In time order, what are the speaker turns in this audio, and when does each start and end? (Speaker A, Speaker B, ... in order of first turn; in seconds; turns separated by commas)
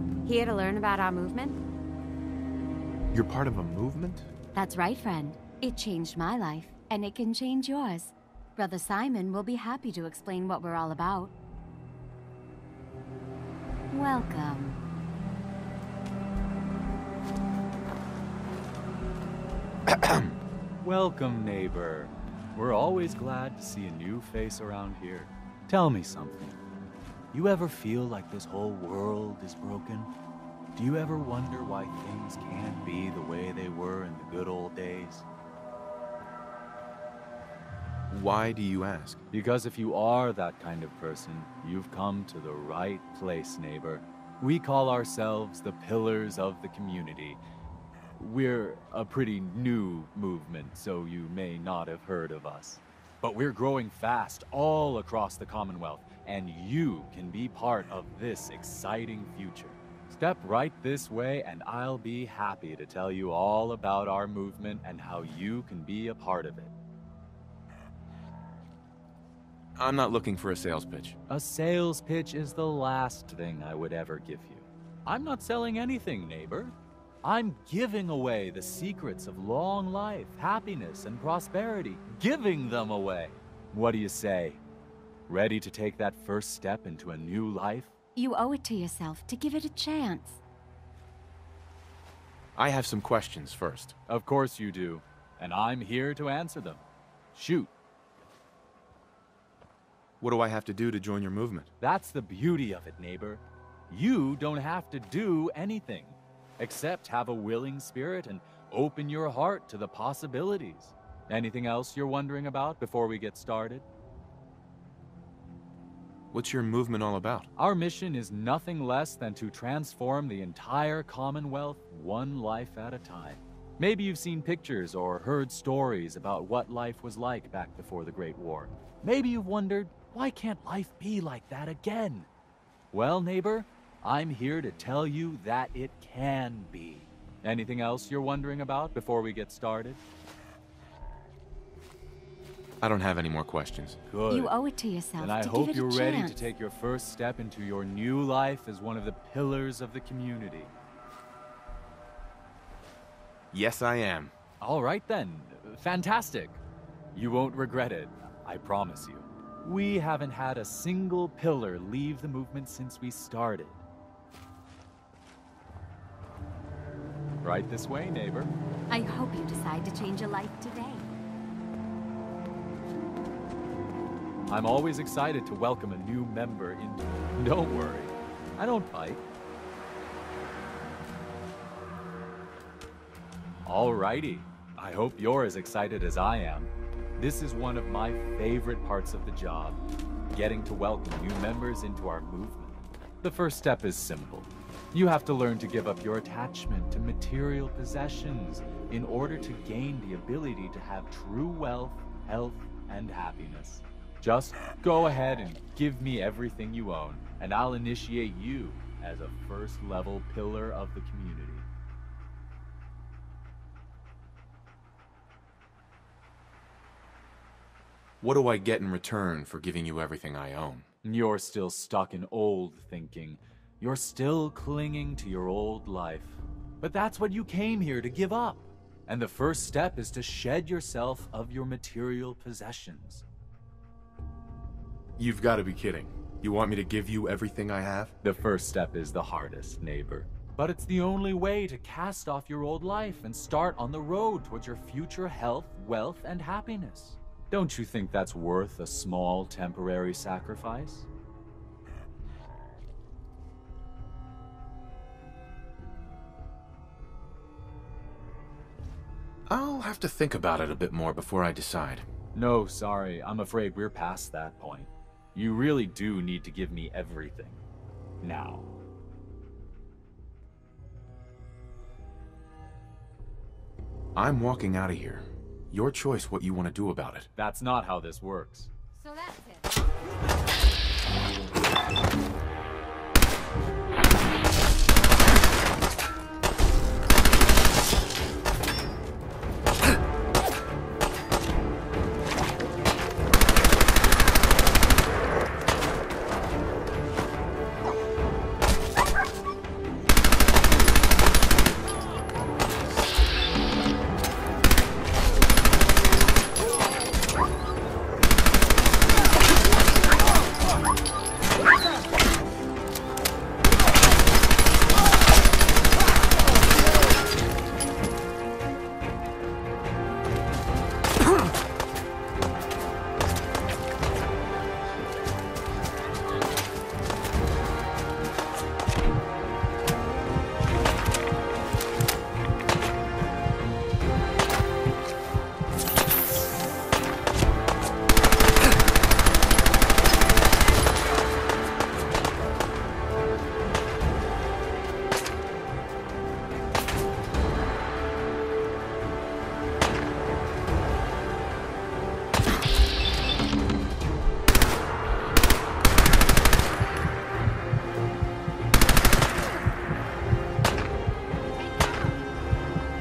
Speaker A: 0.3-1.6, Speaker B: 3.1-4.3, Speaker A: 4.5-11.3, Speaker A: 13.9-14.8, Speaker B: 19.9-20.4, Speaker C: 20.8-26.6, Speaker C: 27.3-30.1, Speaker C: 30.8-35.3, Speaker B: 38.1-39.2, Speaker C: 39.3-47.4, Speaker C: 48.2-66.7, Speaker B: 69.8-71.2, Speaker C: 71.3-84.6, Speaker C: 85.3-87.9, Speaker A: 88.2-90.4, Speaker B: 92.6-94.0, Speaker C: 94.1-97.7, Speaker B: 100.2-101.7, Speaker C: 101.8-113.9, Speaker B: 116.3-117.5, Speaker C: 117.6-132.3, Speaker C: 132.9-140.0, Speaker B: 142.8-144.0, Speaker C: 144.1-144.6, Speaker A: 144.3-146.5, Speaker C: 145.2-150.7, Speaker B: 153.5-154.3, Speaker C: 154.6-156.6, Speaker C: 157.1-163.8, Speaker C: 167.4-168.5, Speaker A: 168.9-171.1, Speaker C: 174.5-179.2, Speaker C: 183.7-211.7, Speaker B: 218.2-220.8, Speaker C: 221.0-233.2, Speaker B: 235.2-238.1, Speaker C: 238.2-251.1, Speaker B: 259.5-262.1, Speaker C: 262.3-267.6, Speaker C: 268.2-268.7, Speaker B: 274.2-277.3, Speaker C: 277.4-278.7, Speaker A: 279.0-280.1